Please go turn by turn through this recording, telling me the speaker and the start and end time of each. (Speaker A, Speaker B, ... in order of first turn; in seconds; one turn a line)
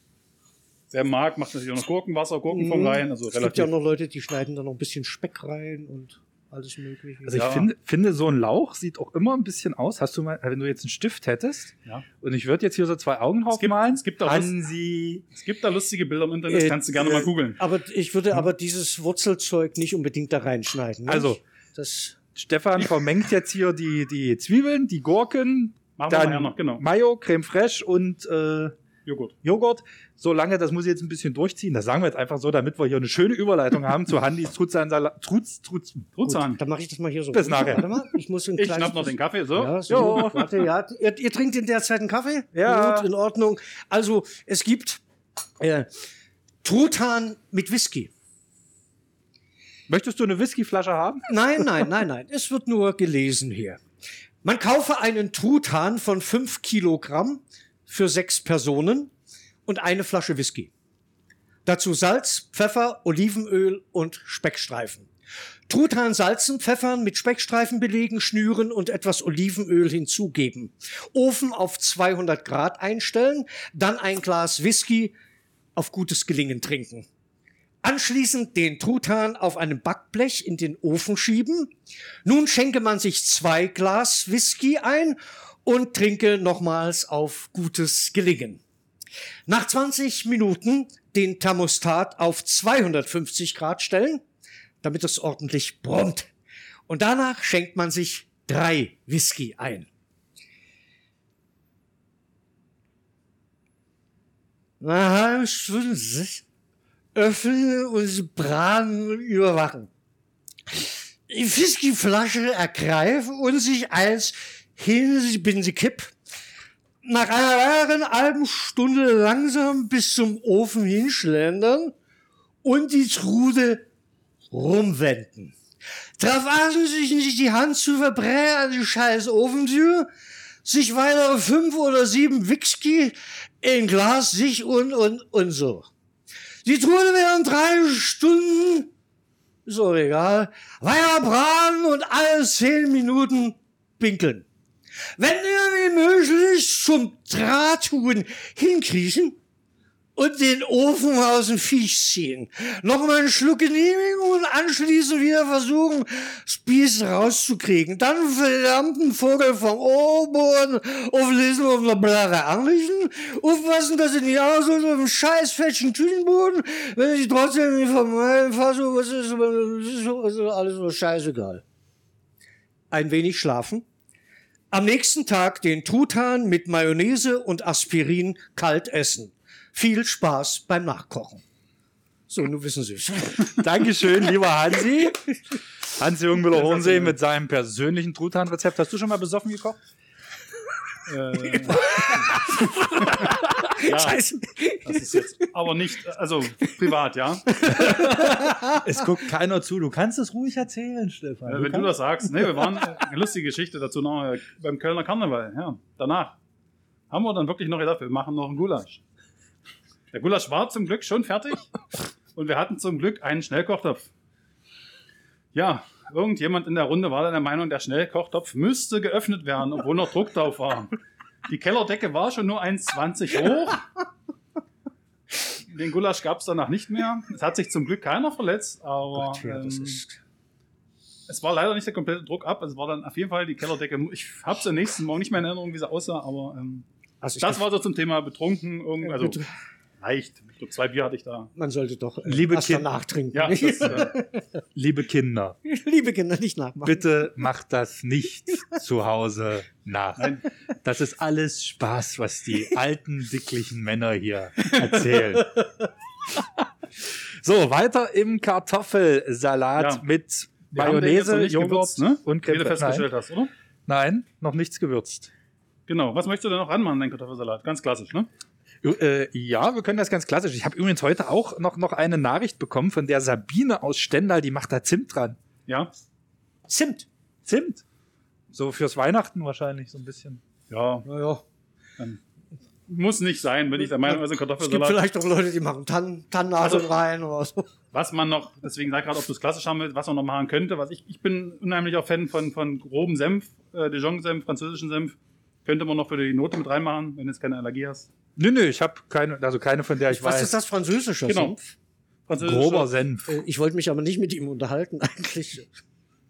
Speaker A: 0.9-3.7
Speaker B: 2.5-7.5
Speaker C: 7.2-15.2
Speaker A: 7.3-7.7
Speaker A: 13.5-14.5
Speaker A: 15.3-17.6
Speaker B: 16.5-22.2
Speaker C: 21.1-21.4
Speaker C: 22.3-28.7
Speaker A: 26.0-26.8
Speaker A: 29.1-29.3
Speaker C: 29.4-36.2
Speaker A: 36.1-36.6
Speaker B: 36.3-45.0
Speaker C: 37.3-37.9
Speaker A: 38.6-40.3
Speaker C: 39.9-40.5
Speaker C: 42.5-43.1
Speaker B: 45.6-45.9
Speaker B: 46.6-48.1
Speaker C: 49.9-51.3
Speaker B: 51.3-53.8
Speaker B: 54.4-59.1
Speaker B: 59.6-60.7
Speaker B: 61.6-65.1
Speaker B: 65.7-75.1
Speaker B: 75.8-77.1
Speaker B: 77.8-81.7
Speaker B: 82.2-88.6
Speaker B: 89.5-94.2
Speaker B: 94.8-96.3
Speaker B: 96.9-99.9
Speaker B: 104.8-106.4
Speaker B: 107.1-109.9
Speaker B: 110.7-116.1
Speaker B: 117.0-121.9
Speaker B: 122.6-123.9
Speaker B: 124.5-125.5
Speaker B: 126.2-130.1
Speaker B: 130.6-135.9
Speaker B: 136.6-138.9
Speaker B: 139.7-144.4
Speaker B: 145.2-149.4
Speaker B: 150.2-171.6
Speaker B: 172.9-173.8
Speaker B: 174.7-181.4
Speaker B: 182.3-183.7
Speaker C: 183.5-185.3
Speaker C: 185.9-189.8
Speaker A: 186.6-187.1
Speaker A: 191.1-192.1
Speaker B: 191.8-195.2
Speaker A: 193.8-194.2
Speaker A: 194.8-197.9
Speaker B: 197.5-199.0
Speaker C: 197.7-201.9
Speaker A: 201.5-206.4
Speaker A: 207.1-209.0
Speaker A: 210.1-211.7
Speaker A: 212.3-214.1
Speaker A: 215.5-220.9
Speaker A: 221.5-223.8
Speaker A: 225.7-230.0
Speaker B: 229.1-230.2
Speaker A: 231.3-236.8
Speaker B: 237.2-237.6
Speaker A: 237.4-239.4
Speaker B: 239.0-239.5
Speaker A: 240.0-241.5
Speaker B: 241.6-244.4
Speaker C: 242.2-242.9
Speaker A: 243.3-244.1
Speaker C: 244.7-245.6
Speaker B: 245.6-247.1
Speaker C: 246.8-255.6
Speaker A: 250.2-250.4
Speaker C: 257.4-263.1
Speaker A: 259.8-260.0
Speaker A: 260.7-263.5
Speaker C: 263.9-265.3
Speaker A: 265.9-268.3
Speaker C: 268.8-275.4
Speaker B: 276.7-277.1
Speaker C: 277.4-277.8
Speaker C: 278.5-280.4
Speaker A: 280.7-281.1
Speaker B: 281.0-281.4
Speaker A: 282.9-285.0
Speaker B: 284.0-287.7
Speaker A: 287.9-298.1
Speaker C: 298.4-300.6
Speaker B: 300.1-301.7
Speaker A: 301.3-301.5
Speaker A: 302.3-302.9
Speaker C: 302.4-303.4
Speaker B: 303.3-305.7